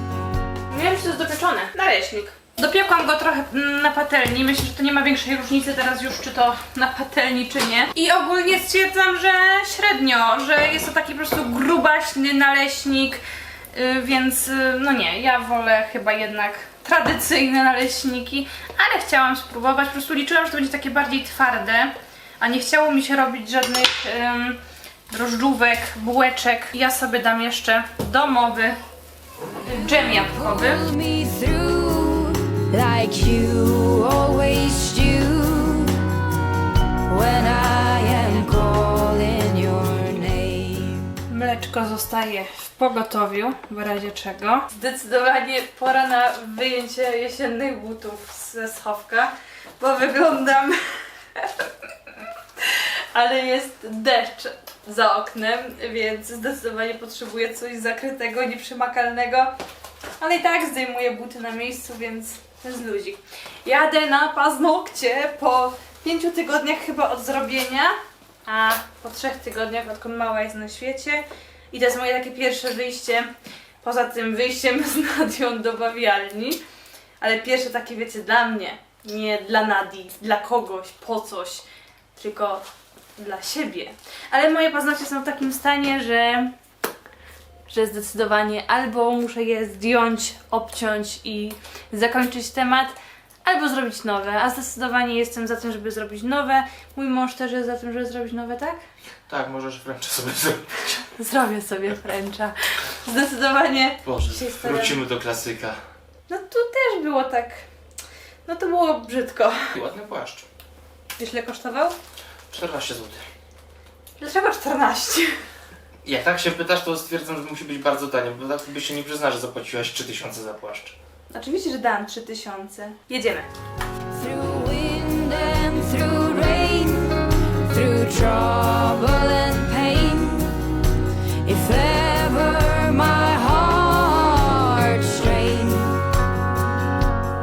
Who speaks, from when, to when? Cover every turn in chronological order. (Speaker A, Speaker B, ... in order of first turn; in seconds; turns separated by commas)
Speaker A: 0.7-28.8, Speaker A: 29.6-30.8, Speaker B: 29.7-36.1, Speaker B: 37.1-41.2, Speaker A: 41.3-50.8, Speaker A: 51.4-59.5, Speaker A: 60.2-73.3, Speaker A: 73.8-76.6, Speaker A: 77.2-81.7, Speaker A: 82.2-82.6, Speaker A: 83.2-86.5, Speaker A: 87.7-98.8, Speaker C: 99.3-101.1, Speaker A: 101.2-105.0, Speaker C: 104.0-105.8, Speaker A: 106.3-107.7, Speaker A: 108.5-109.6, Speaker C: 109.7-110.5, Speaker A: 111.2-112.0, Speaker C: 112.5-113.2, Speaker A: 114.2-115.3, Speaker C: 116.0-121.0, Speaker A: 121.3-123.5, Speaker B: 124.1-130.7, Speaker B: 131.4-136.0